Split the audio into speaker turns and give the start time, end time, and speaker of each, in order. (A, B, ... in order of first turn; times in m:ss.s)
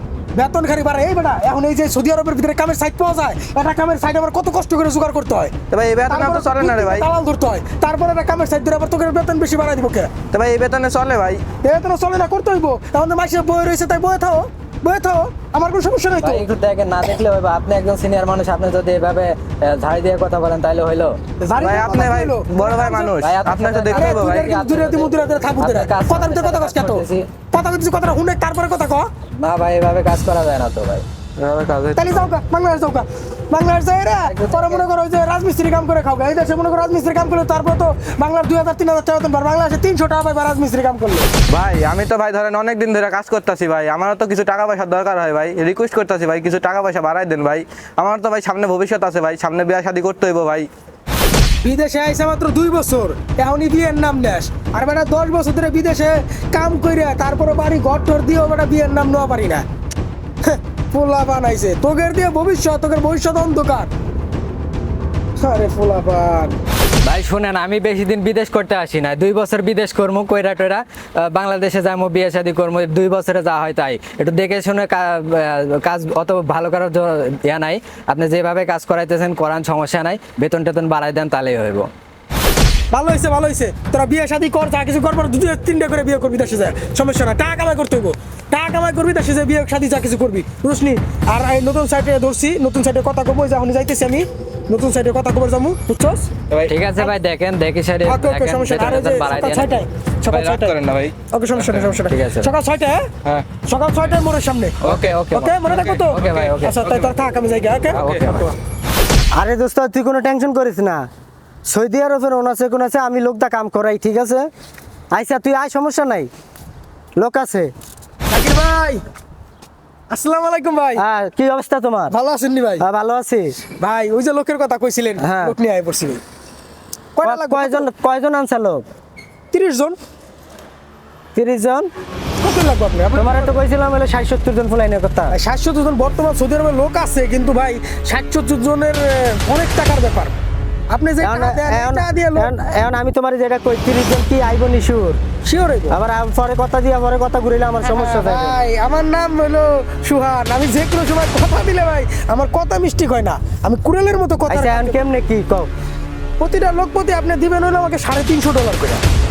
0:00.4-0:10.2 A
0:05.7-0:07.0 B
0:10.3-0:11.5 B
0:11.6-0:16.4 A
0:16.2-0:21.2 C
0:21.4-0:23.1 A
0:21.6-0:24.5 B
0:23.2-0:27.3 C
0:23.9-0:29.1 A
0:29.4-0:31.1 C
0:31.4-0:32.1 B
0:32.0-0:41.3 A
0:34.3-0:34.9 C
0:41.5-0:50.7 B
0:51.6-0:59.7 A
1:00.4-1:03.9 A
1:05.4-1:06.6 A
1:07.0-1:21.9 C
1:22.9-1:36.3 A
1:36.6-1:42.5 C
1:38.1-1:43.0 A
1:43.7-1:44.8 A
1:44.8-1:46.9 C
1:45.3-1:48.6 A
1:47.9-1:48.5 C
1:49.4-1:51.1 D
1:51.7-1:54.5 D
1:55.1-1:56.3 D
1:57.2-1:57.7 D
1:58.3-1:59.0 A
2:00.1-2:01.0 A
2:01.0-2:02.2 D
2:02.1-2:02.8 A
2:02.8-2:03.6 D
2:03.8-2:06.2 A
2:05.2-2:05.6 D
2:07.2-2:07.9 A
2:07.2-2:08.8 D
2:09.5-2:10.0 A
2:11.4-2:11.9 D
2:12.4-2:13.5 A
2:13.2-2:15.4 D
2:15.3-2:20.4 A
2:20.9-2:22.5 A
2:21.2-2:25.2 D
2:25.4-2:26.0 A
2:25.9-2:28.5 D
2:27.8-2:35.0 A
2:34.5-2:35.7 D
2:36.4-2:39.0 A